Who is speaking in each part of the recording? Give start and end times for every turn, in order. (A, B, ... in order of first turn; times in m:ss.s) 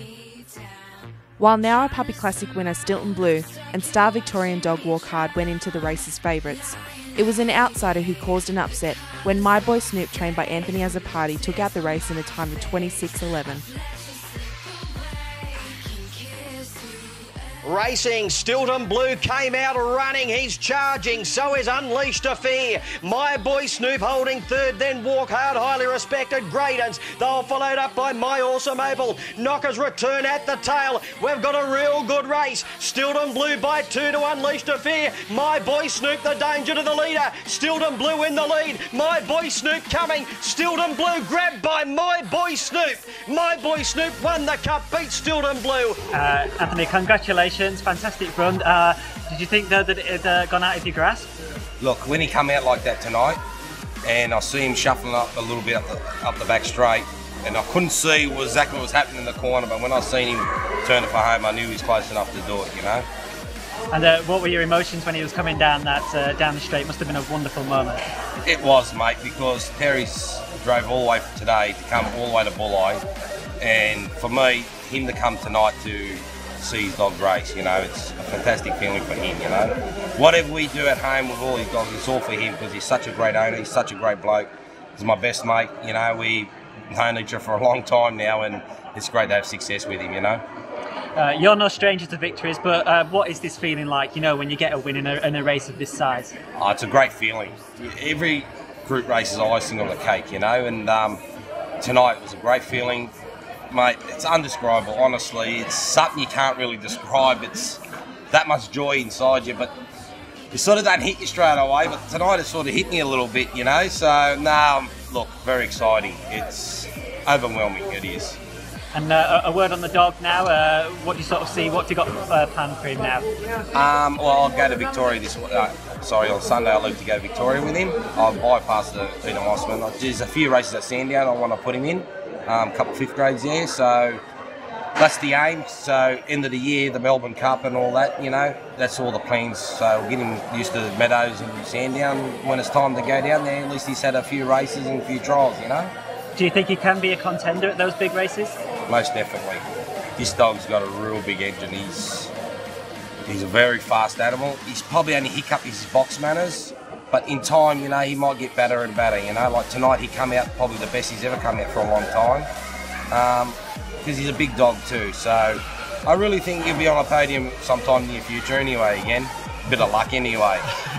0:01.4-0:13.7 A
0:17.6-0:46.0 B
0:46.1-0:51.3 C
0:51.8-0:53.4 D
0:54.0-1:03.1 D
1:03.9-1:08.1 C
1:08.4-1:13.0 D
1:13.6-1:30.4 D
1:31.2-1:36.4 C
1:36.6-1:41.2 D
1:41.8-1:43.1 D
1:43.7-1:49.7 D
1:50.5-1:58.4 D
1:58.9-2:03.3 C
2:03.7-2:14.2 D
2:15.0-2:25.9 D
2:26.4-2:28.6 C
2:28.9-2:29.7 D
2:30.2-2:32.3 D
2:33.2-2:42.5 D
2:43.1-2:50.7 D